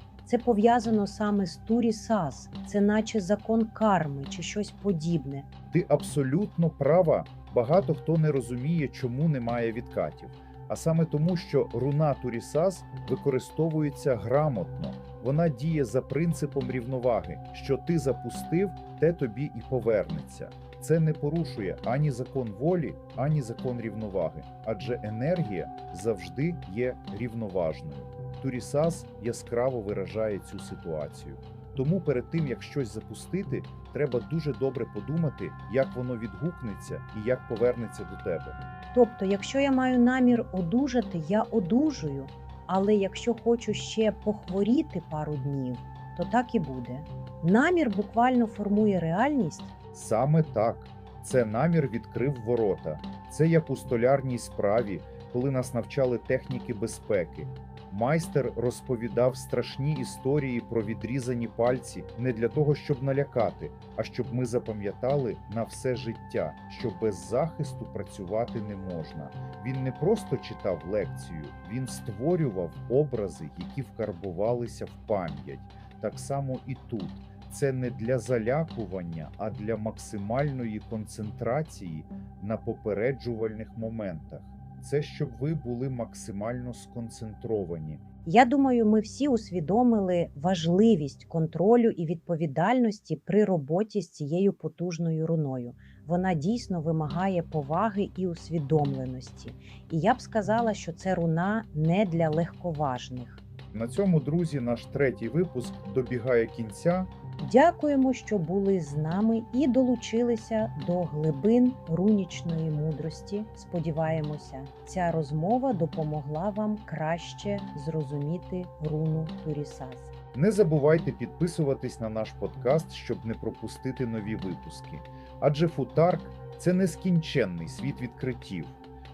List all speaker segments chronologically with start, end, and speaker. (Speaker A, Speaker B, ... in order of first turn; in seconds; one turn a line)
Speaker A: 0.2-5.5
Speaker B: 5.7-38.6
Speaker A: 38.9-49.7
Speaker B: 49.9-88.0
Speaker A: 88.2-103.4
Speaker B: 103.7-107.1
Speaker A: 107.4-120.1
Speaker B: 120.3-128.8